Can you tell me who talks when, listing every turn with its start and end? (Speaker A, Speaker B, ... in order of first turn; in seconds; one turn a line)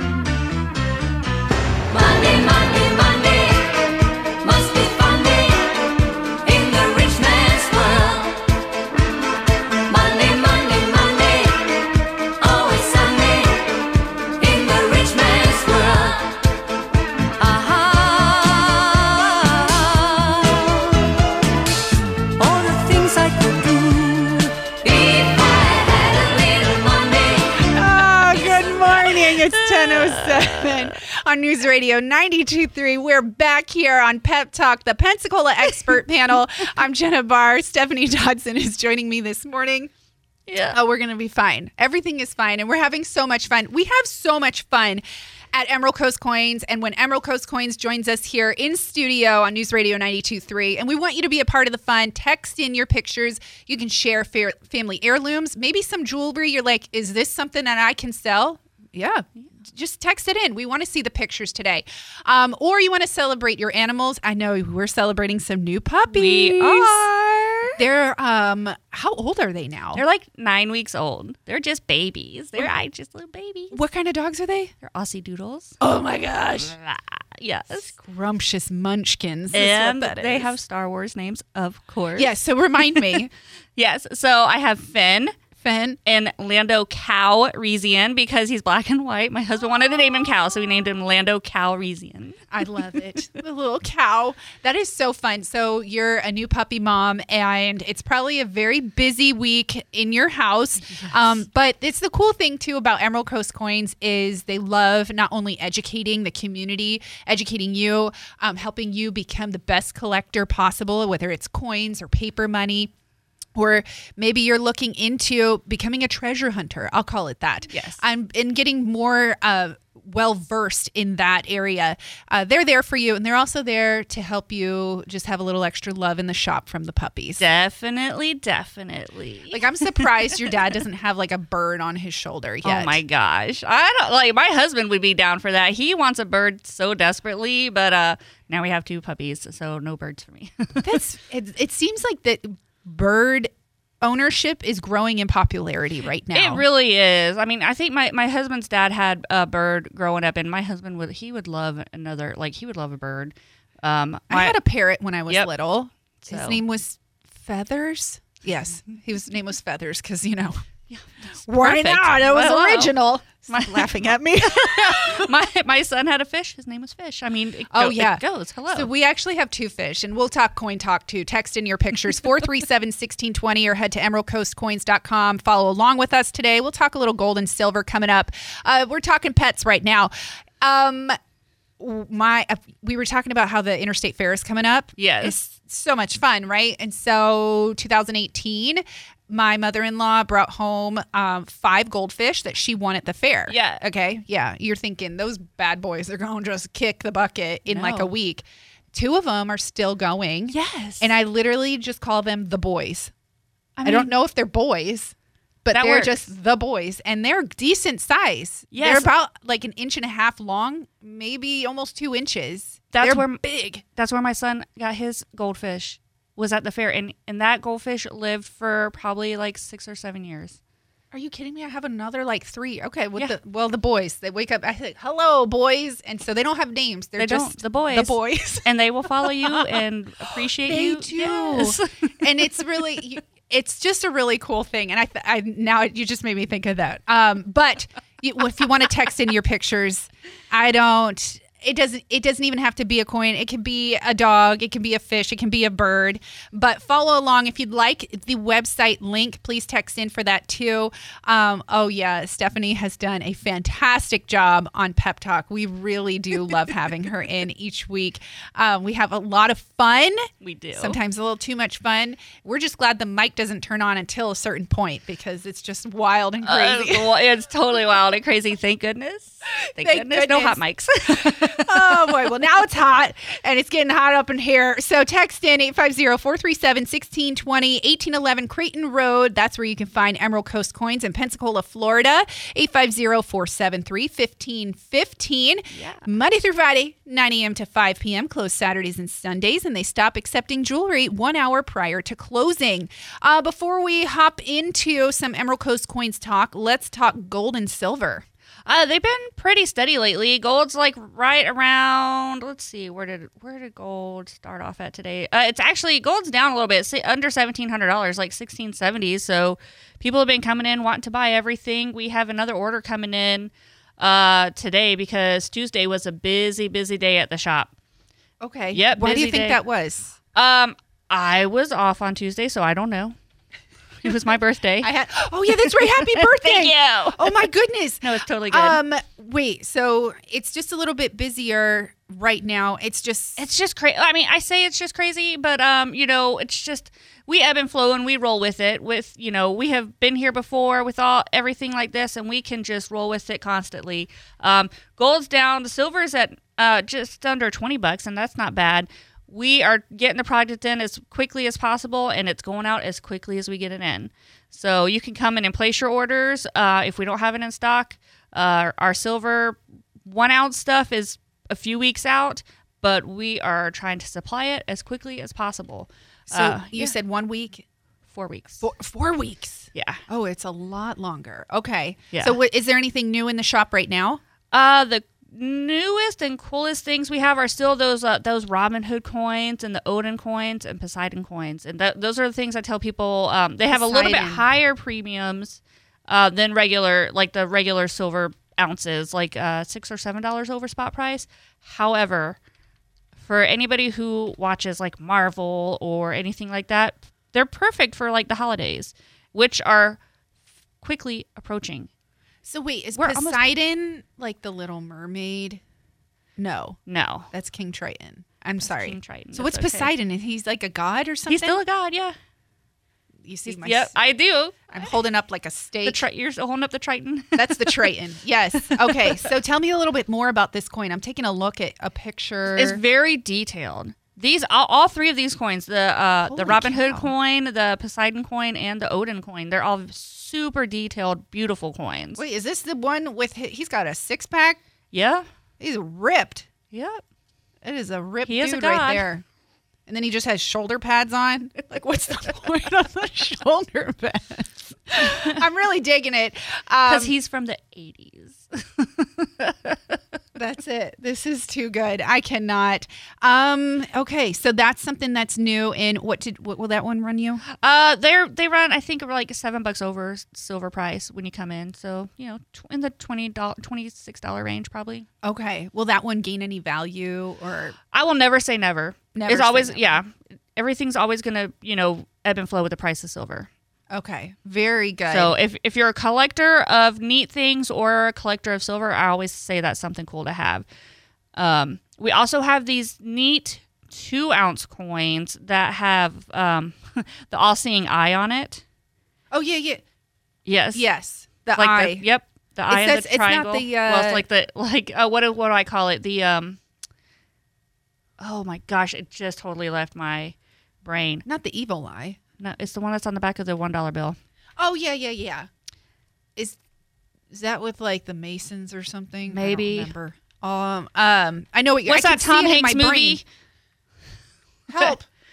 Speaker A: 2.2-3.3
Speaker A: 4.5-5.5
Speaker A: 6.5-8.3
Speaker A: 9.9-11.0
Speaker B: 11.0-11.4
Speaker A: 12.6-13.5
Speaker A: 14.4-16.2
Speaker B: 17.4-19.5
Speaker A: 22.4-27.2
Speaker B: 22.6-23.9
Speaker C: 27.6-39.9
Speaker B: 29.5-30.6
Speaker B: 40.5-40.8
Speaker C: 40.7-67.1
Speaker B: 66.1-67.8
Speaker C: 67.8-70.0
Speaker B: 70.0-73.8
Speaker C: 73.7-74.7
Speaker B: 74.8-75.8
Speaker C: 75.8-76.8
Speaker B: 76.6-77.9
Speaker C: 77.7-80.5
Speaker B: 79.5-82.3
Speaker C: 82.2-83.3
Speaker B: 83.8-85.4
Speaker C: 85.6-86.0
Speaker B: 86.0-92.5
Speaker C: 92.5-112.9
Speaker C: 113.5-127.4
Speaker B: 117.7-118.0
Speaker B: 127.4-130.1
Speaker C: 129.5-133.0
Speaker B: 132.7-141.0
Speaker C: 140.8-146.6
Speaker B: 146.3-154.6
Speaker C: 154.3-160.6
Speaker B: 156.2-156.6
Speaker B: 160.9-163.0
Speaker C: 161.5-165.3
Speaker B: 163.5-163.9
Speaker B: 164.4-168.9
Speaker C: 167.7-181.2
Speaker C: 181.8-203.1
Speaker B: 185.0-185.4
Speaker B: 193.5-193.8
Speaker B: 197.7-198.1
Speaker B: 200.5-201.1
Speaker B: 203.8-204.1
Speaker C: 203.8-213.8
Speaker B: 205.7-206.1
Speaker B: 208.7-209.1
Speaker B: 212.9-220.6
Speaker C: 221.1-228.7
Speaker B: 227.2-232.2
Speaker C: 229.2-229.8
Speaker C: 230.6-267.1
Speaker B: 260.4-261.0
Speaker B: 266.4-272.1
Speaker C: 269.8-298.2
Speaker B: 285.7-286.0
Speaker B: 298.7-317.7
Speaker C: 318.4-320.2
Speaker B: 318.7-319.6
Speaker B: 320.4-323.2
Speaker B: 324.0-324.9
Speaker C: 324.8-333.4
Speaker B: 325.5-327.5
Speaker B: 328.0-328.8
Speaker B: 333.4-366.9
Speaker C: 366.3-367.6
Speaker B: 368.1-368.6
Speaker C: 368.6-374.2
Speaker B: 369.7-370.0
Speaker B: 372.1-372.4
Speaker B: 374.5-392.4
Speaker C: 383.7-384.4
Speaker B: 393.2-400.0
Speaker B: 400.8-401.9
Speaker C: 402.4-405.6
Speaker B: 403.0-403.4
Speaker C: 406.4-406.8
Speaker B: 406.9-407.3
Speaker C: 407.3-411.6
Speaker B: 408.6-409.9
Speaker B: 411.3-412.2
Speaker C: 413.2-413.9
Speaker B: 413.5-414.6
Speaker C: 414.7-416.1
Speaker B: 415.9-417.9
Speaker C: 417.4-422.8
Speaker B: 418.7-419.2
Speaker B: 422.5-432.2
Speaker C: 426.3-427.1
Speaker C: 432.2-434.6
Speaker B: 434.9-435.3
Speaker C: 435.6-436.5
Speaker B: 436.7-437.0
Speaker C: 437.6-439.2
Speaker B: 438.2-439.1
Speaker C: 439.9-447.1
Speaker B: 446.9-450.0
Speaker C: 450.4-457.4
Speaker B: 457.5-465.1
Speaker C: 465.2-467.8
Speaker B: 467.9-473.5
Speaker C: 469.1-470.0
Speaker C: 473.9-475.4
Speaker B: 475.1-480.7
Speaker B: 481.4-488.6
Speaker C: 489.3-489.8
Speaker B: 490.5-490.9
Speaker C: 490.8-492.0
Speaker B: 491.6-496.6
Speaker C: 492.7-494.2
Speaker B: 498.2-501.2
Speaker C: 501.3-502.2
Speaker B: 502.4-504.2
Speaker C: 504.6-505.5
Speaker C: 507.3-513.2
Speaker B: 509.3-509.9
Speaker B: 511.9-513.2
Speaker C: 514.7-515.1